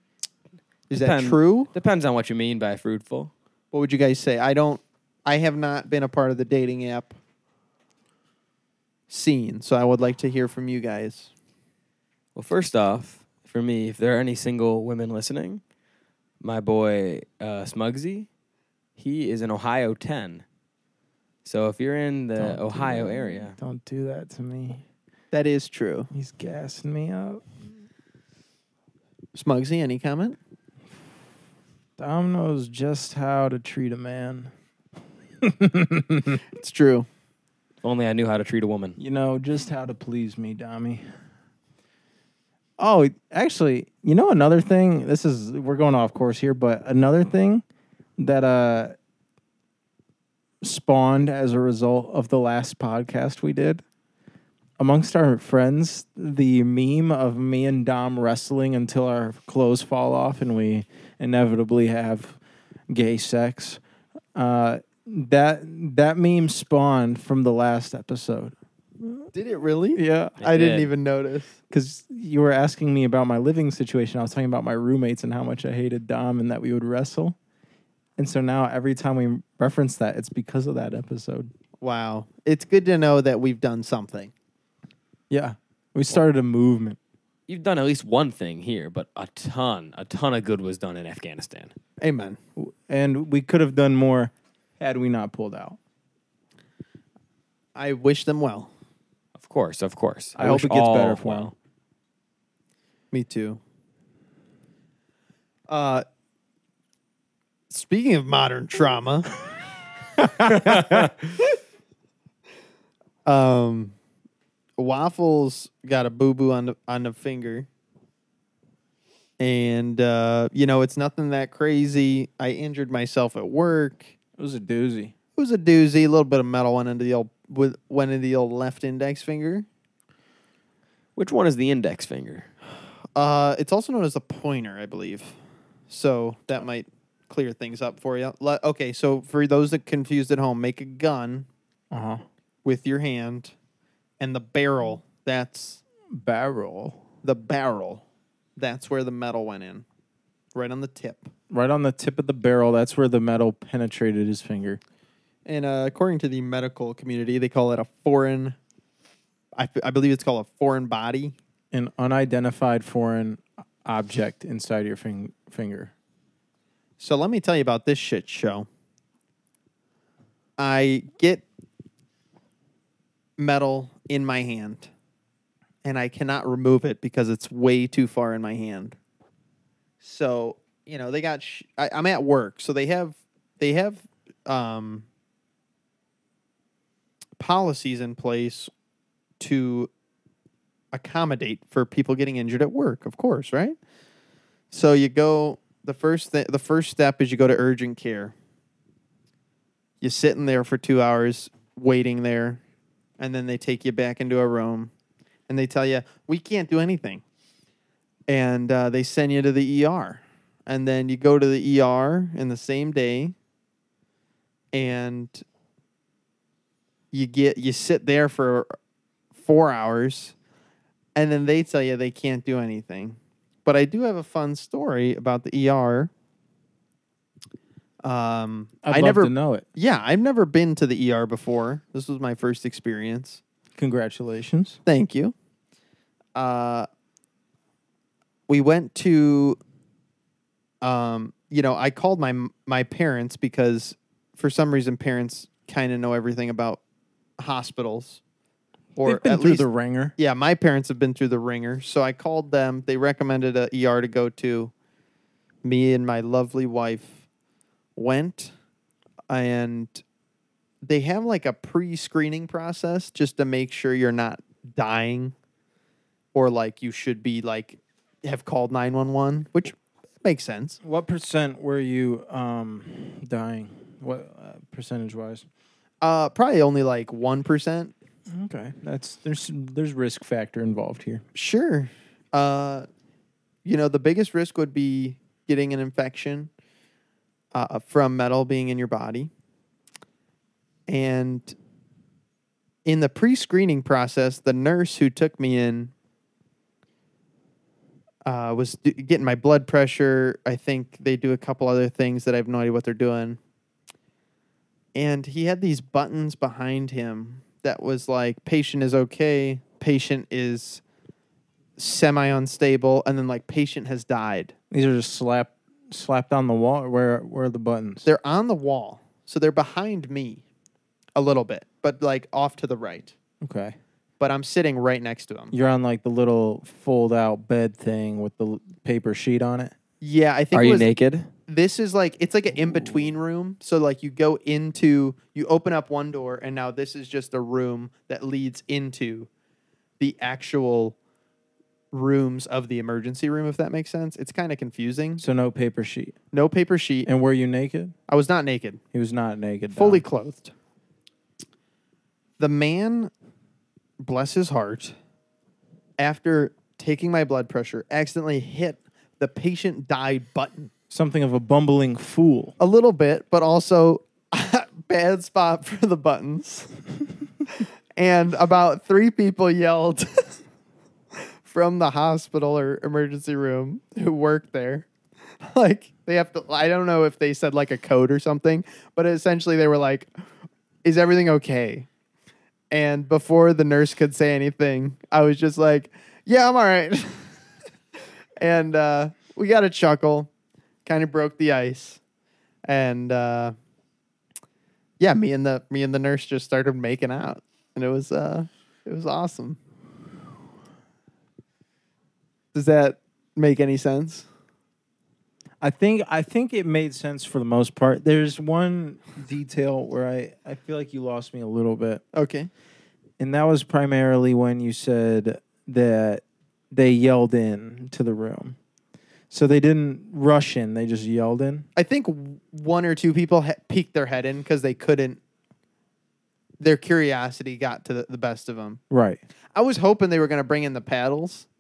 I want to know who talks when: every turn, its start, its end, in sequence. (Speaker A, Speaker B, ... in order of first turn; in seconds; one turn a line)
Speaker A: 0.9-1.7
Speaker B: 0.9-3.3
Speaker A: 3.7-7.2
Speaker A: 9.1-11.3
Speaker B: 12.3-15.6
Speaker B: 16.4-18.3
Speaker B: 19.0-20.4
Speaker B: 21.4-23.5
Speaker C: 22.4-24.8
Speaker A: 25.3-26.1
Speaker C: 26.1-27.4
Speaker A: 29.3-30.4
Speaker C: 32.0-34.5
Speaker C: 35.4-36.4
Speaker A: 36.5-37.1
Speaker B: 37.8-39.0
Speaker C: 39.0-41.0
Speaker C: 42.8-47.6
Speaker C: 48.2-49.0
Speaker C: 50.6-53.8
Speaker C: 54.8-63.8
Speaker C: 64.3-69.3
Speaker A: 69.3-71.6
Speaker C: 70.0-70.4
Speaker B: 70.4-70.9
Speaker C: 71.7-77.3
Speaker C: 78.2-81.5
Speaker A: 81.8-84.3
Speaker C: 85.3-87.0
Speaker B: 87.5-91.7
Speaker A: 92.0-92.4
Speaker C: 92.6-95.8
Speaker A: 97.8-98.7
Speaker B: 99.3-101.5
Speaker C: 100.4-101.5
Speaker A: 103.1-103.6
Speaker A: 105.7-106.0
Speaker A: 107.7-109.3
Speaker C: 110.2-111.1
Speaker B: 110.6-111.1
Speaker A: 113.2-113.9
Speaker A: 114.8-117.7
Speaker A: 119.4-124.1
Speaker C: 124.4-125.1
Speaker A: 125.3-129.7
Speaker B: 131.2-132.5
Speaker A: 133.1-135.3
Speaker A: 135.9-141.5
Speaker C: 141.9-142.2
Speaker A: 142.6-143.5
Speaker A: 144.2-145.8
Speaker C: 146.1-147.0
Speaker A: 147.2-148.0
Speaker A: 148.6-149.8
Speaker A: 150.5-151.3
Speaker C: 151.5-154.8
Speaker A: 155.4-158.6
Speaker A: 159.5-161.3
Speaker C: 161.7-165.9
Speaker A: 167.0-168.7
Speaker A: 170.6-171.4
Speaker A: 173.4-174.9
Speaker A: 175.8-178.9
Speaker A: 180.0-185.1
Speaker A: 187.4-188.7
Speaker A: 189.4-189.9
Speaker A: 190.9-193.8
Speaker A: 194.7-198.3
Speaker A: 200.0-202.6
Speaker A: 203.2-204.9
Speaker A: 205.5-207.2
Speaker A: 208.3-213.3
Speaker A: 214.7-215.4
Speaker A: 217.1-218.8
Speaker A: 219.4-220.3
Speaker A: 221.1-226.1
Speaker A: 228.0-233.4
Speaker C: 228.8-229.7
Speaker C: 233.8-234.8
Speaker A: 234.8-235.3
Speaker A: 236.3-236.9
Speaker A: 238.5-239.6
Speaker A: 240.8-246.8
Speaker A: 247.4-248.2
Speaker A: 248.9-254.7
Speaker C: 249.0-250.1
Speaker A: 255.6-257.2
Speaker A: 257.9-258.5
Speaker A: 259.3-260.0
Speaker A: 260.8-265.3
Speaker A: 266.3-270.8
Speaker C: 270.8-275.4
Speaker A: 276.0-277.9
Speaker C: 278.3-281.2
Speaker A: 281.3-282.9
Speaker A: 283.6-286.5
Speaker A: 287.5-289.3
Speaker A: 290.9-291.5
Speaker A: 292.8-295.9
Speaker A: 298.2-303.4
Speaker A: 304.9-310.8
Speaker A: 311.8-314.5
Speaker C: 314.7-318.1
Speaker A: 318.0-320.4
Speaker A: 321.1-323.1
Speaker C: 323.4-323.8
Speaker A: 324.2-325.5
Speaker C: 325.5-329.7
Speaker A: 330.0-330.9
Speaker B: 330.5-331.3
Speaker A: 331.5-339.3
Speaker A: 340.0-340.9
Speaker A: 341.9-345.2
Speaker C: 345.2-346.1
Speaker A: 346.3-347.1
Speaker C: 347.1-347.9
Speaker A: 348.1-348.8
Speaker C: 348.9-350.0
Speaker A: 349.7-350.5
Speaker A: 352.4-353.1
Speaker A: 354.0-354.9
Speaker A: 356.0-360.7
Speaker C: 360.9-362.5
Speaker A: 362.6-366.7
Speaker A: 367.6-370.4
Speaker A: 371.4-374.9
Speaker A: 375.4-380.1
Speaker A: 380.8-381.9
Speaker A: 382.7-387.3
Speaker A: 388.4-390.3
Speaker A: 390.9-392.0
Speaker A: 392.6-393.5
Speaker A: 395.0-399.6
Speaker A: 402.5-404.2
Speaker C: 405.6-412.0
Speaker A: 412.1-412.5
Speaker C: 413.2-418.6
Speaker C: 419.3-421.6
Speaker A: 421.8-425.2
Speaker A: 426.6-428.8
Speaker C: 428.9-429.2
Speaker A: 429.5-431.5